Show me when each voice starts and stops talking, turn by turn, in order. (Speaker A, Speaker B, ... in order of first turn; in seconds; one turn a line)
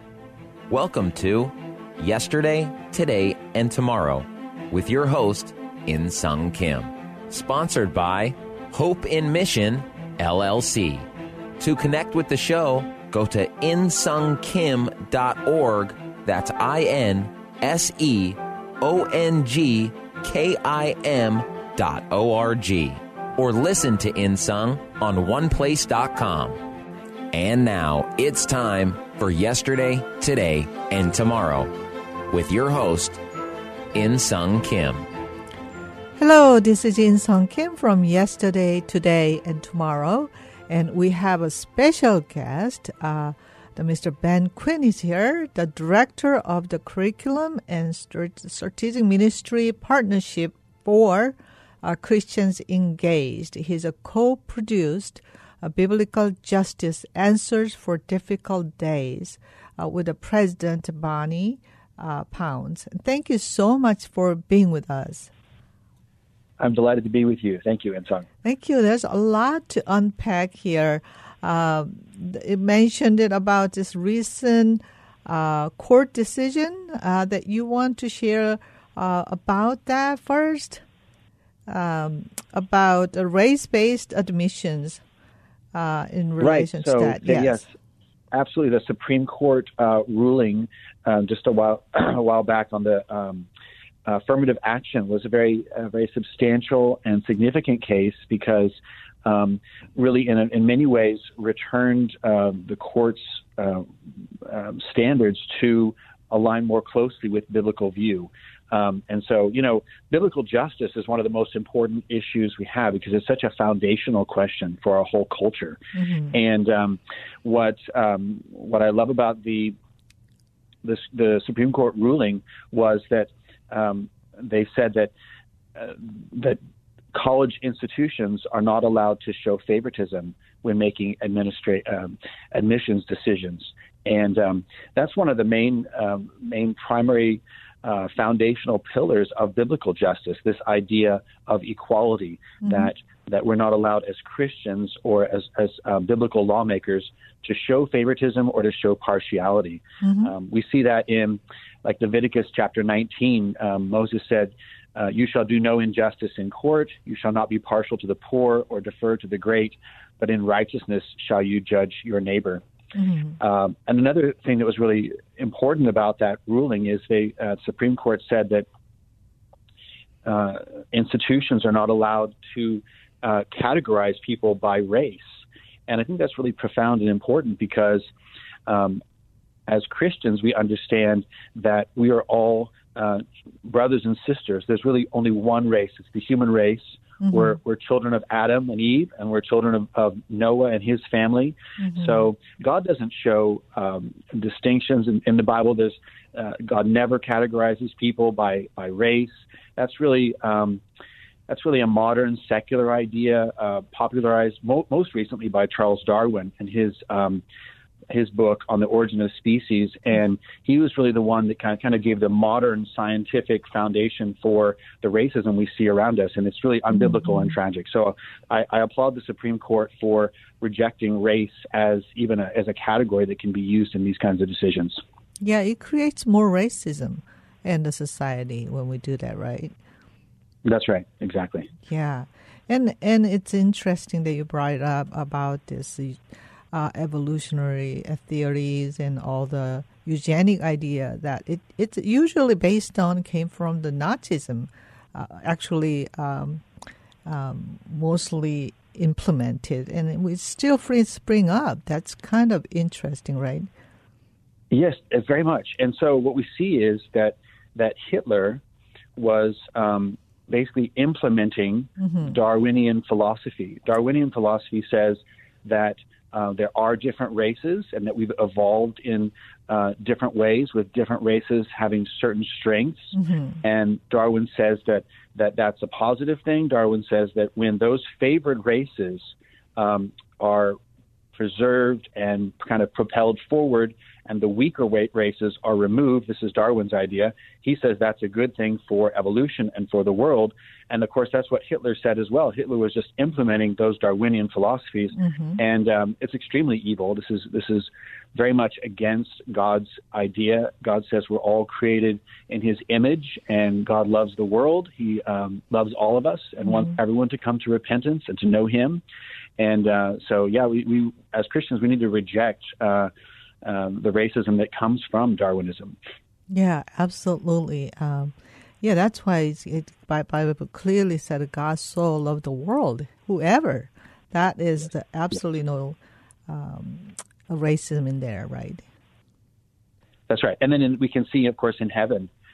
Speaker A: 0.7-11.1
Speaker A: 11.6-26.6
Speaker A: 27.3-31.7
Speaker A: 32.3-33.2
Speaker A: 33.9-35.1
Speaker B: 36.2-65.3
Speaker C: 66.6-68.3
Speaker B: 68.4-80.8
Speaker B: 81.7-85.0
Speaker B: 85.7-87.7
Speaker C: 86.4-87.7
Speaker C: 88.3-93.5
Speaker C: 94.1-103.9
Speaker C: 104.4-115.8
Speaker B: 116.0-116.3
Speaker C: 116.3-119.8
Speaker C: 120.8-125.1
Speaker C: 125.8-126.6
Speaker C: 127.1-162.6
Speaker B: 150.0-150.3
Speaker B: 163.0-163.4
Speaker C: 163.4-168.7
Speaker C: 170.2-178.1
Speaker C: 178.7-179.0
Speaker C: 179.7-200.8
Speaker C: 201.5-207.4
Speaker C: 208.1-225.0
Speaker B: 225.4-229.8
Speaker C: 230.7-231.7
Speaker B: 231.8-236.2
Speaker B: 236.7-246.6
Speaker B: 247.3-253.7
Speaker C: 254.7-258.6
Speaker C: 259.2-280.8
Speaker B: 273.1-273.6
Speaker C: 281.4-309.0
Speaker B: 295.2-295.6
Speaker C: 309.6-313.1
Speaker C: 313.6-315.9
Speaker B: 316.5-326.0
Speaker B: 326.5-328.9
Speaker C: 330.3-332.3